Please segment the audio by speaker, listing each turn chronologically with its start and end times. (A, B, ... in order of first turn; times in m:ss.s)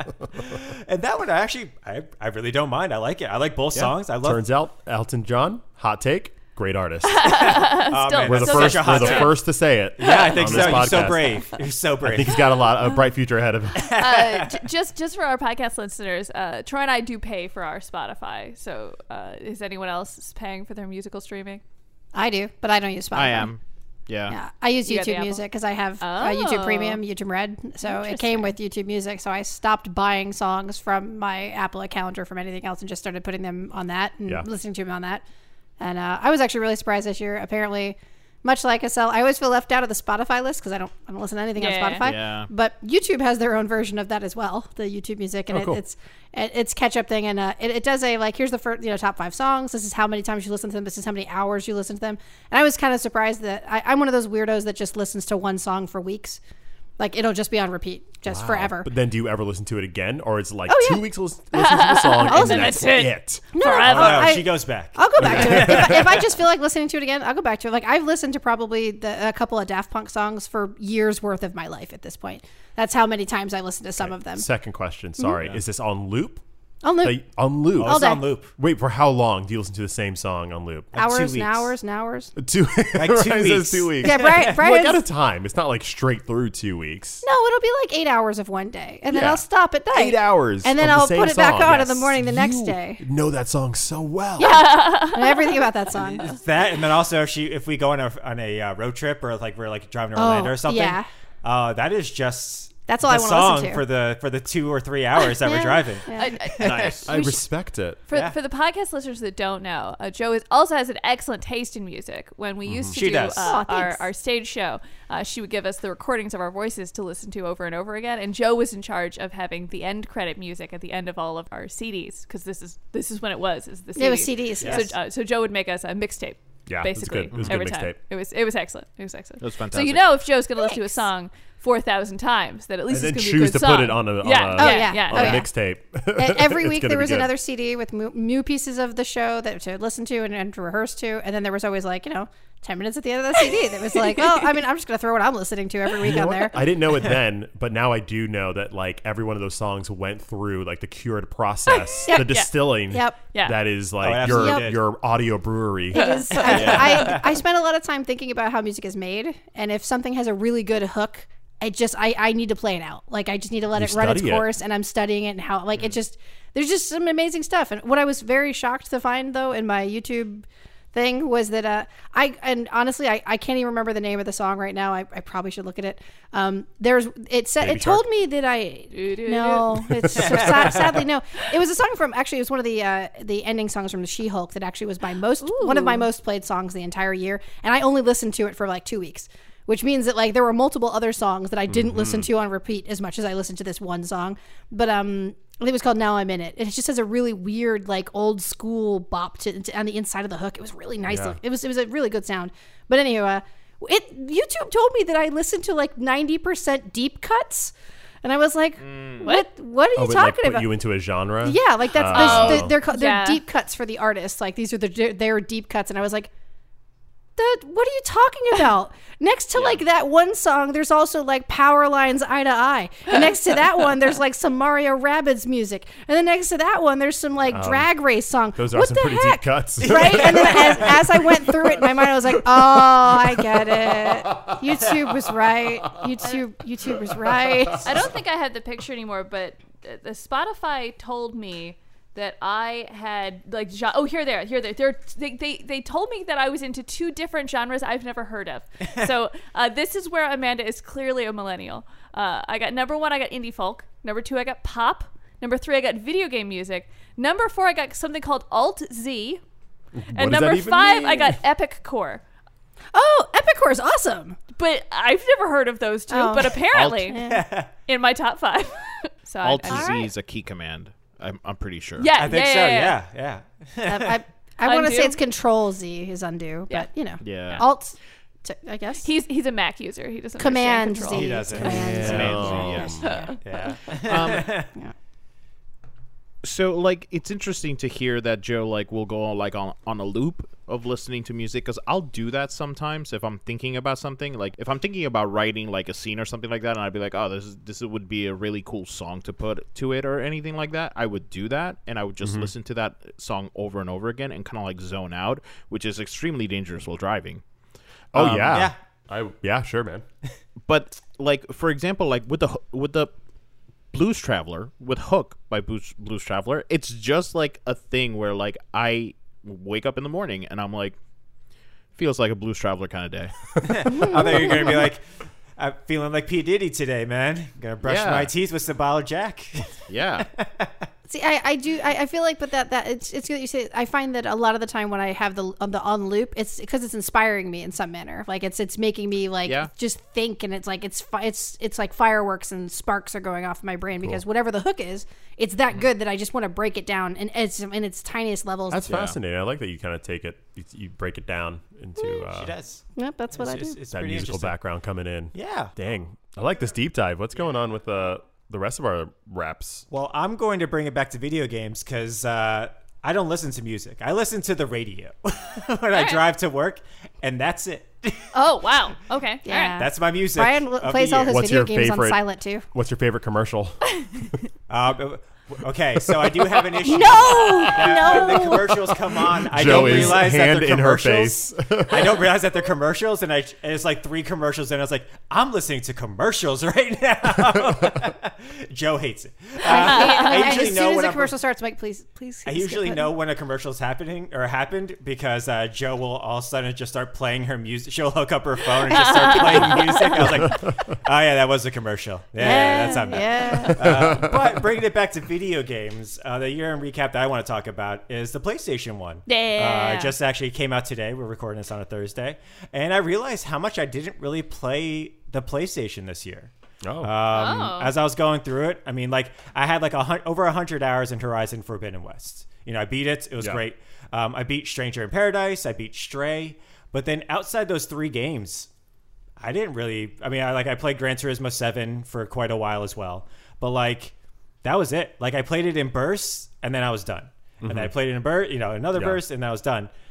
0:00.4-0:04.4 A
0:04.2-0:07.4 B
0:07.0-0:09.4 C
0:07.2-0:09.5 A
0:08.2-0:11.5 B
0:10.0-0:12.4 A
0:10.0-0:11.2 C
0:12.0-0:14.0 B
0:13.8-0:14.6 A
0:13.9-0:21.6 C
0:22.1-0:23.5 D
0:23.1-0:24.4 E
0:24.3-0:35.2 D
0:24.8-0:25.4 C
0:26.0-0:27.0 C
0:27.8-0:28.5 C
0:35.8-0:56.4 D
0:41.6-0:42.0 C
0:42.0-0:42.5 E
0:45.5-0:45.8 B
0:57.0-0:58.9 D
0:58.2-1:03.4 B
1:00.7-1:01.1 D
1:01.5-1:04.4 C
1:02.2-1:03.0 D
1:03.5-1:14.4 D
1:03.9-1:06.3 A
1:05.2-1:06.1 B
1:14.0-1:16.4 B
1:16.8-1:17.2 D
1:17.0-1:20.9 B
1:17.8-1:18.3 D
1:17.8-1:18.5 A
1:20.9-1:21.7 A
1:20.9-1:22.3 D
1:22.4-1:27.2 B
1:22.9-1:24.6 A
1:24.0-1:25.0 D
1:27.2-1:33.0 D
1:29.1-1:34.8 B
1:34.4-1:36.4 D
1:34.4-1:35.6 C
1:36.2-1:47.0 A
1:40.2-1:41.1 D
1:42.9-1:43.8 D
1:45.2-1:46.4 D
1:46.1-1:47.4 C
1:46.6-1:47.2 E
1:47.1-1:48.0 B
1:48.1-2:15.4 C
1:52.6-1:53.0 B
1:52.9-1:53.6 A
1:53.4-1:54.1 D
2:04.0-2:04.9 D
2:06.7-2:08.0 B
2:07.3-2:07.6 E
2:09.4-2:10.1 E
2:10.6-2:11.0 D
2:12.9-2:17.3 B
2:14.5-2:15.5 D
2:16.2-2:26.6 D
2:24.1-2:24.4 C
2:26.0-2:36.2 B
2:31.7-2:32.5 C
2:32.1-2:33.2 D
2:33.3-2:33.6 C
2:34.0-2:34.8 A
2:34.2-2:34.7 D
2:35.9-3:30.7 D
2:35.9-2:37.2 C
2:36.3-2:37.4 A
2:36.5-2:37.0 E
2:43.7-2:44.5 B
2:57.6-2:58.0 B
2:58.9-3:00.4 C
2:59.9-3:00.4 B
3:00.2-3:01.0 A
3:05.4-3:06.1 C
3:11.7-3:12.3 B
3:21.1-3:21.4 B
3:28.8-3:29.2 E
3:29.2-3:29.5 C
3:29.9-3:32.8 B
3:31.4-3:36.3 D
3:32.0-3:33.4 C
3:37.4-3:58.0 D
3:39.5-3:39.8 E
3:47.5-3:47.9 B
3:48.5-3:54.2 B
3:49.9-3:50.8 A
3:57.8-4:19.4 C
4:19.9-4:21.4 B
4:20.1-4:22.2 C
4:22.9-4:24.4 D
4:24.6-4:27.3 C
4:26.1-4:27.4 D
4:26.7-4:27.2 E
4:27.2-4:27.7 A
4:27.9-4:30.1 C
4:29.4-4:32.1 E
4:29.7-4:30.0 D
4:32.0-4:33.0 C
4:32.2-4:34.2 A
4:33.8-4:39.1 D
4:34.6-4:35.2 C
4:37.2-4:37.6 E
4:37.4-4:37.6 C
4:39.0-4:41.6 C
4:40.4-4:43.3 D
4:41.0-4:42.8 A
4:41.6-4:43.1 B
4:41.8-4:43.1 E
4:43.0-4:43.8 C
4:43.4-4:44.7 A
4:44.0-4:44.6 E
4:46.4-5:07.4 E
5:02.2-5:02.5 B
5:08.1-5:08.7 E
5:08.1-5:10.0 B
5:10.6-5:13.1 E
5:13.9-5:21.0 E
5:21.9-5:24.6 E
5:23.6-5:25.0 A
5:23.9-5:24.8 D
5:25.6-5:30.7 A
5:27.8-5:28.3 E
5:29.9-5:30.3 E
5:31.1-5:48.9 D
5:48.7-5:52.5 B
5:48.9-5:49.2 E
5:52.2-5:54.6 A
5:53.0-5:53.8 D
5:53.9-5:59.9 B
5:55.3-5:55.7 A
5:59.9-6:08.3 A
6:05.9-6:06.2 C
6:08.3-6:09.8 C
6:09.4-6:12.6 D
6:09.8-6:11.4 A
6:11.3-6:14.4 B
6:14.7-6:31.3 A
6:16.0-6:16.5 B
6:16.8-6:19.0 D
6:17.3-6:18.2 C
6:19.5-6:22.3 B
6:19.6-6:20.2 D
6:27.5-6:28.1 B
6:29.6-6:33.1 D
6:29.7-6:30.7 C
6:32.4-6:56.5 A
6:38.9-6:40.5 C
6:40.4-6:40.6 B
6:42.4-6:44.1 D
6:42.4-6:43.7 C
6:43.7-6:44.4 B
6:49.2-6:50.1 C
6:56.8-6:57.1 B
6:57.0-7:08.7 A
6:57.3-6:57.9 C
7:09.4-7:19.9 A
7:17.6-7:17.9 B
7:18.9-7:19.2 B